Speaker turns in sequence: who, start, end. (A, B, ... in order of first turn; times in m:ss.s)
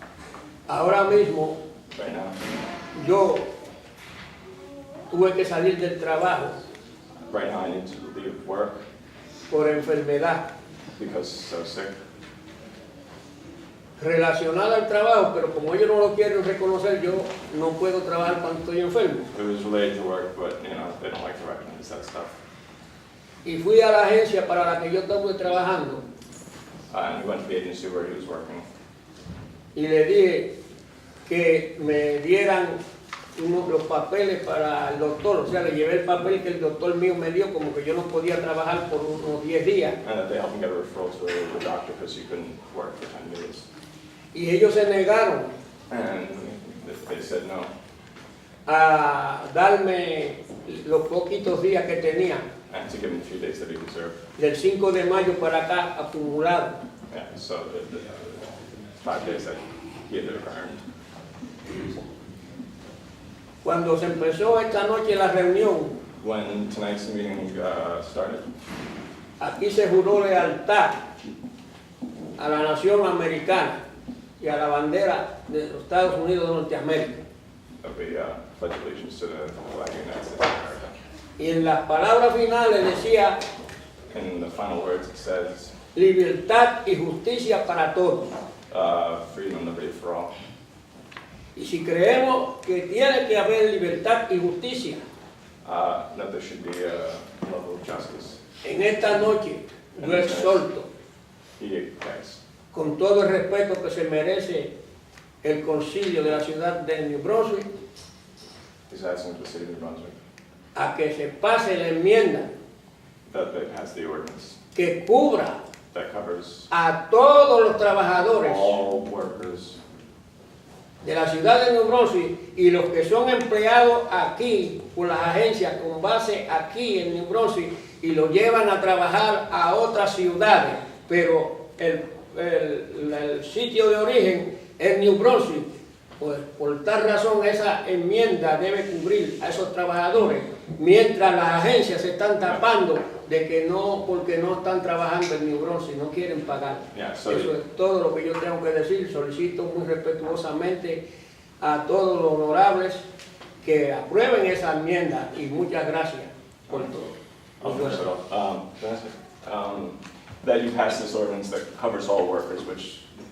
0:00.7-0:01.6 A
0:01.9-0:02.4 B
0:02.9-0:03.5 A
0:05.1-0:06.6 A
0:07.3-0:08.8 B
0:09.5-0:10.5 A
0:11.0-0:12.0 B
0:14.0-0:19.3 A
0:19.3-0:22.3 B
0:23.4-0:26.0 A
0:26.9-0:28.7 B
0:29.7-0:30.5 A
0:31.3-0:32.8 A
0:33.4-0:40.0 A
0:40.0-0:43.6 B
0:44.3-0:45.5 A
0:45.9-0:47.7 B
0:48.7-0:52.5 A
0:52.7-0:54.2 B
0:54.4-0:56.8 A
0:57.1-1:00.8 B
1:03.6-1:06.0 A
1:06.2-1:08.5 B
1:09.4-1:11.1 A
1:12.4-1:13.8 A
1:14.4-1:17.2 A
1:17.8-1:20.9 B
1:21.4-1:23.4 A
1:24.1-1:25.7 B
1:26.0-1:28.4 A
1:28.7-1:30.3 B
1:31.6-1:35.0 A
1:35.6-1:38.4 B
1:38.6-1:40.9 A
1:40.0-1:40.6 B
1:41.6-1:42.4 B
1:42.7-1:44.7 A
1:45.4-1:47.7 A
1:48.9-1:50.2 B
1:50.8-1:52.5 A
1:53.3-1:54.6 B
1:54.8-1:55.6 A
1:55.9-1:56.7 B
1:56.7-1:58.8 A
1:58.3-1:59.8 B
2:01.0-2:31.0 A
2:26.9-2:27.5 B
2:31.6-2:33.0 A
2:33.6-2:38.1 A
2:37.6-2:43.1 B